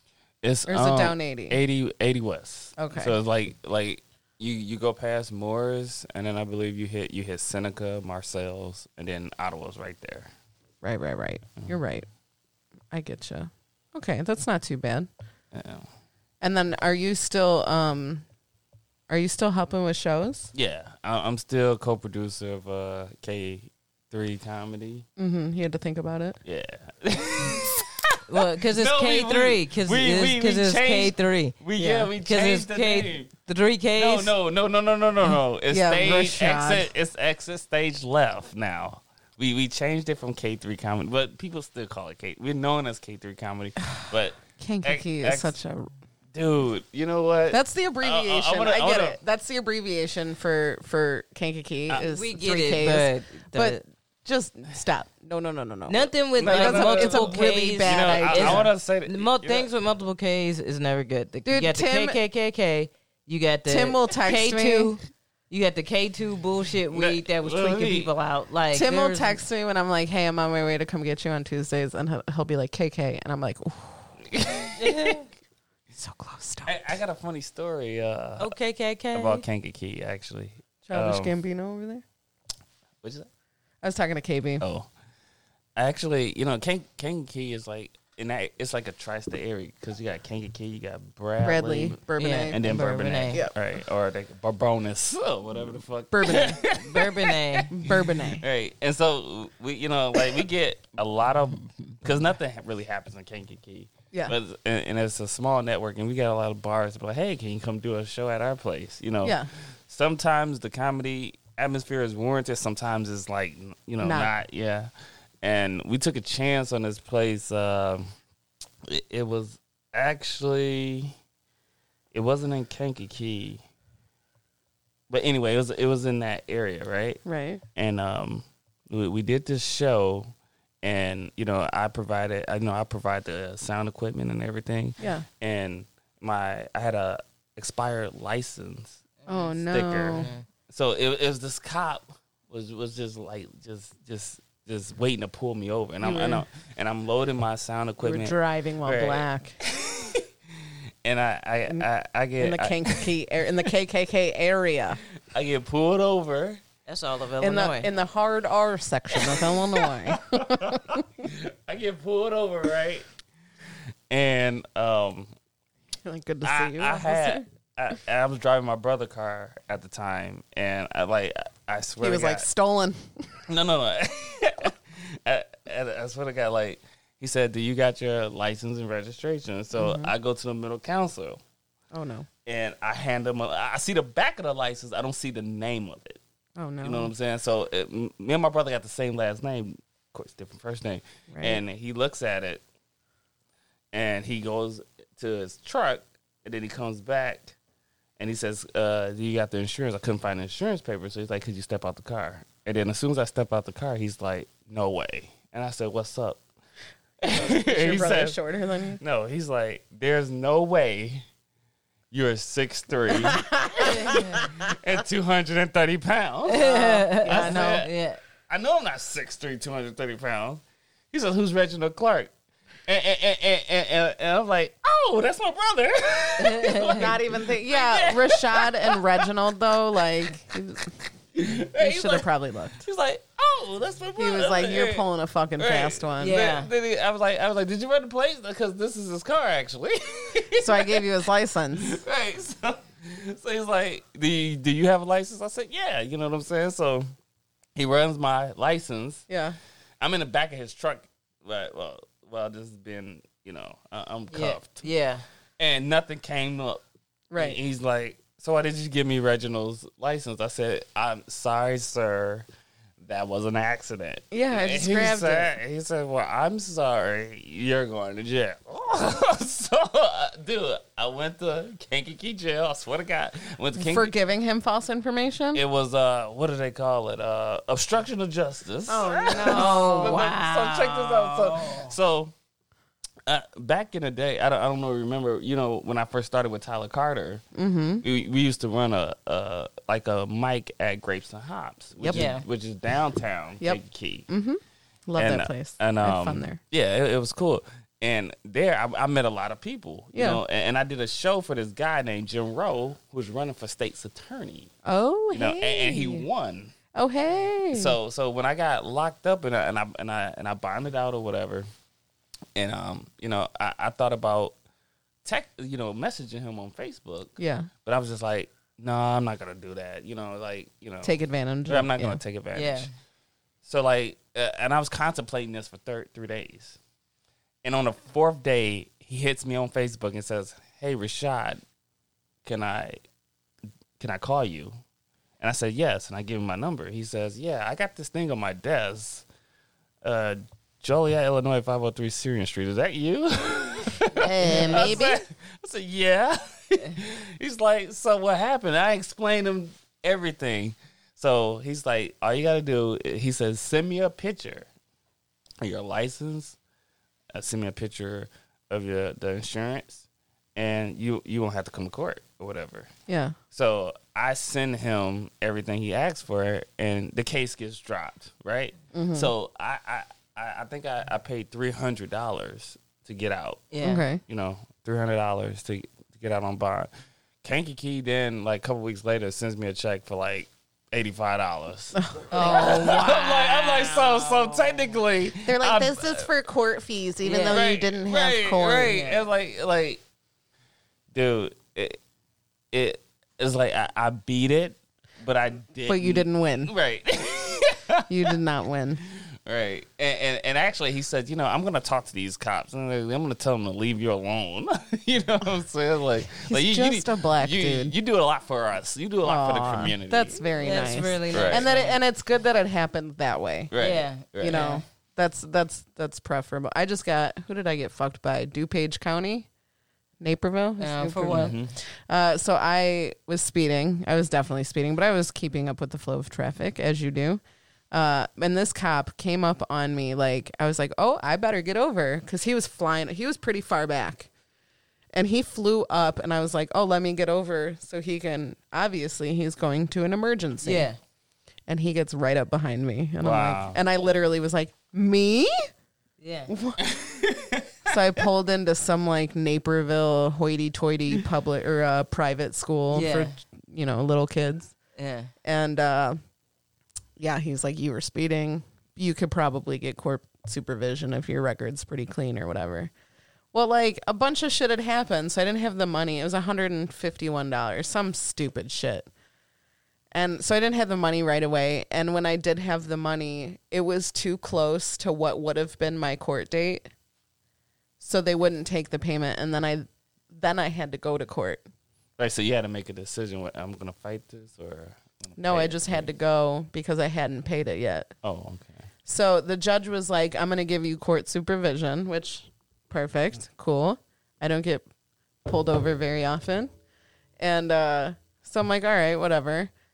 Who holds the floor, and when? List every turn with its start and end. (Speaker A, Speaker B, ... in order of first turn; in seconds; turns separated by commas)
Speaker A: 0.4-10.3, Speaker B: 0.7-1.6, Speaker B: 2.8-3.1, Speaker B: 10.8-12.1, Speaker B: 12.9-15.1, Speaker A: 15.5-15.8, Speaker B: 16.4-18.2, Speaker B: 19.1-20.5, Speaker A: 20.5-25.1, Speaker B: 25.2-26.4, Speaker A: 26.4-33.3, Speaker C: 28.3-31.6, Speaker B: 31.8-32.1, Speaker C: 32.1-34.3, Speaker A: 34.0-45.5, Speaker B: 35.7-36.9, Speaker B: 44.6-45.9, Speaker A: 46.3-49.2, Speaker B: 47.5-58.7, Speaker C: 52.0-53.8, Speaker C: 55.9-69.4, Speaker A: 56.4-59.7, Speaker B: 61.5-62.2, Speaker B: 63.6-65.0, Speaker A: 66.9-68.1, Speaker B: 68.7-74.1, Speaker A: 74.3-75.0, Speaker C: 74.8-75.3, Speaker B: 75.9-76.7, Speaker A: 76.6-78.5, Speaker C: 78.4-79.4, Speaker A: 79.1-81.3, Speaker B: 80.9-82.0, Speaker A: 83.0-83.3, Speaker B: 83.8-84.6, Speaker A: 84.6-84.9, Speaker A: 85.8-114.9, Speaker B: 91.4-92.6, Speaker C: 92.2-93.4, Speaker B: 96.1-96.6, Speaker C: 96.6-97.7, Speaker B: 97.7-98.4, Speaker B: 109.2-109.5, Speaker B: 114.0-114.3, Speaker A: 115.4-118.1, Speaker A: 118.9-121.1, Speaker A: 122.1-123.6, Speaker A: 125.1-127.2, Speaker B: 127.2-127.6, Speaker A: 127.8-130.3, Speaker A: 130.8-139.0, Speaker B: 135.0-135.2, Speaker C: 139.2-139.6, Speaker B: 139.3-140.3, Speaker A: 139.7-153.1, Speaker C: 140.1-140.4, Speaker B: 146.0-146.4, Speaker B: 148.0-149.6, Speaker B: 152.4-155.0, Speaker A: 155.3-156.6, Speaker C: 156.8-157.9, Speaker B: 157.4-161.3, Speaker A: 159.2-163.0, Speaker A: 164.1-165.3, Speaker B: 166.0-167.4, Speaker A: 166.4-172.5, Speaker B: 172.0-173.4, Speaker A: 173.5-181.4, Speaker B: 179.8-180.1, Speaker B: 181.9-182.3, Speaker A: 182.4-186.2, Speaker B: 186.6-187.1, Speaker A: 186.8-192.6, Speaker B: 191.3-191.6, Speaker A: 193.9-197.5, Speaker A: 198.2-206.4, Speaker A: 207.2-208.4, Speaker B: 207.3-209.0, Speaker A: 209.0-211.2, Speaker A: 212.1-217.9, Speaker B: 213.1-214.5, Speaker C: 213.8-214.4, Speaker C: 216.5-218.2, Speaker B: 216.6-217.9, Speaker A: 218.5-222.3, Speaker A: 222.9-229.2, Speaker C: 226.4-227.1, Speaker B: 226.9-230.9, Speaker A: 231.3-232.2, Speaker B: 231.8-232.8, Speaker A: 232.8-235.0, Speaker B: 234.2-236.4, Speaker A: 235.6-241.1, Speaker C: 236.2-236.7, Speaker B: 240.6-242.0, Speaker A: 241.8-247.1, Speaker A: 247.8-249.2, Speaker B: 249.3-249.6, Speaker A: 250.0-254.8, Speaker C: 254.3-255.2, Speaker A: 255.6-256.8, Speaker B: 257.3-257.6, Speaker A: 257.4-262.4, Speaker A: 263.0-274.1, Speaker B: 264.3-265.6, Speaker B: 273.8-275.6, Speaker A: 275.5-282.3, Speaker B: 278.9-280.2, Speaker C: 279.5-281.9, Speaker A: 283.3-287.4, Speaker B: 287.5-288.0, Speaker A: 288.0-294.3, Speaker B: 292.0-292.3, Speaker C: 292.1-292.4, Speaker B: 293.6-296.6, Speaker A: 295.2-304.7, Speaker B: 300.1-300.4, Speaker B: 304.8-306.2, Speaker A: 305.3-306.7, Speaker B: 306.9-308.0, Speaker A: 307.7-311.7, Speaker A: 312.6-314.5, Speaker A: 315.2-321.1, Speaker B: 317.4-317.7, Speaker B: 321.0-322.2, Speaker A: 321.7-322.9, Speaker C: 322.5-322.9, Speaker A: 323.6-326.8, Speaker A: 327.6-331.6, Speaker A: 332.4-333.0, Speaker A: 334.0-334.8, Speaker A: 335.4-339.2, Speaker A: 340.0-354.7, Speaker B: 344.1-345.2, Speaker C: 344.2-345.0, Speaker A: 355.6-356.6, Speaker A: 357.3-360.0, Speaker A: 360.6-362.9, Speaker B: 363.1-363.4, Speaker A: 363.5-373.7, Speaker B: 368.9-369.3, Speaker C: 373.7-374.0, Speaker B: 373.8-374.2, Speaker A: 374.2-376.9, Speaker A: 377.4-386.3, Speaker B: 381.9-383.2, Speaker C: 382.3-384.9, Speaker B: 385.4-389.0, Speaker C: 387.2-387.6, Speaker A: 387.5-390.0, Speaker C: 388.9-389.2, Speaker A: 391.1-392.0, Speaker A: 392.7-398.1, Speaker B: 395.9-396.7, Speaker B: 398.1-399.0, Speaker A: 399.4-410.5, Speaker B: 406.5-407.9, Speaker B: 409.2-413.7, Speaker C: 410.6-412.0, Speaker A: 411.3-411.6, Speaker A: 413.7-414.7, Speaker C: 413.8-414.8, Speaker B: 414.4-419.5, Speaker B: 420.2-434.3, Speaker C: 420.8-421.6, Speaker A: 421.3-421.7, Speaker B: 435.1-440.9, Speaker C: 440.6-441.0, Speaker B: 441.7-445.5, Speaker A: 443.2-443.8, Speaker C: 446.2-446.5, Speaker B: 446.5-446.8, Speaker A: 446.8-447.9, Speaker B: 447.9-454.7, Speaker C: 452.9-453.4, Speaker C: 454.9-455.3, Speaker B: 455.4-456.2, Speaker B: 457.2-462.9, Speaker B: 463.5-469.1, Speaker B: 470.1-476.9, Speaker B: 478.0-481.6, Speaker A: 482.2-486.1, Speaker B: 485.4-488.1, Speaker A: 488.2-488.8, Speaker B: 489.1-494.8, Speaker B: 495.4-496.7, Speaker B: 497.4-499.7